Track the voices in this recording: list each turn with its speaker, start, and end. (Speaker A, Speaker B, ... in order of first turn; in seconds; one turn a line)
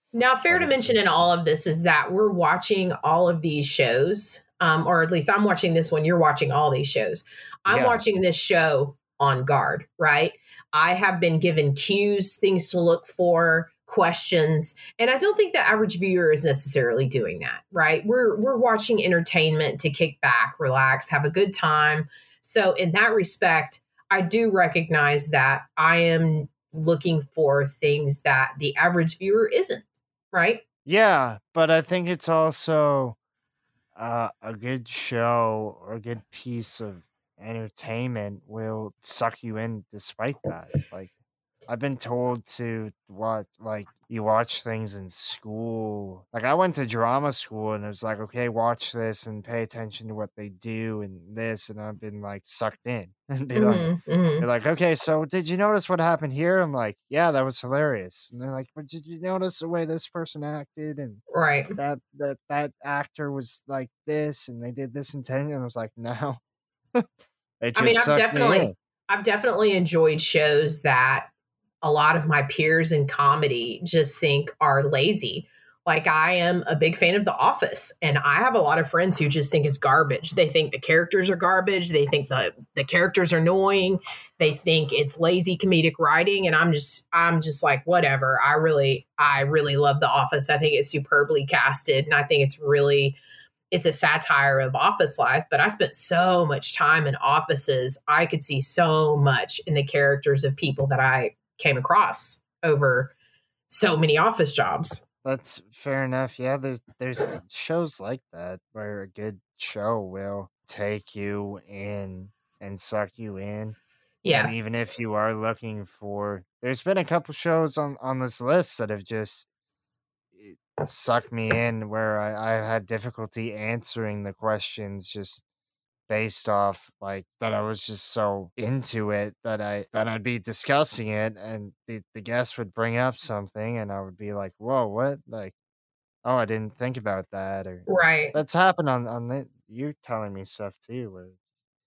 Speaker A: 0.1-30.6
Speaker B: 0.5-1.1
Speaker B: 7.7-8.0
Speaker B: 30.9-33.1
Speaker B: 34.0-41.1
Speaker B: 41.7-53.9
Speaker A: 53.5-54.5
Speaker B: 54.4-61.2
Speaker A: 61.3-61.8
Speaker B: 61.8-66.4
Speaker B: 67.6-68.7
Speaker A: 67.7-71.3
Speaker A: 71.8-93.2
Speaker A: 93.7-103.1
Speaker A: 103.7-105.0
Speaker B: 105.2-119.5
Speaker A: 114.2-114.5
Speaker B: 120.3-125.4
Speaker B: 126.1-135.5
Speaker B: 136.2-141.3
Speaker A: 137.9-138.4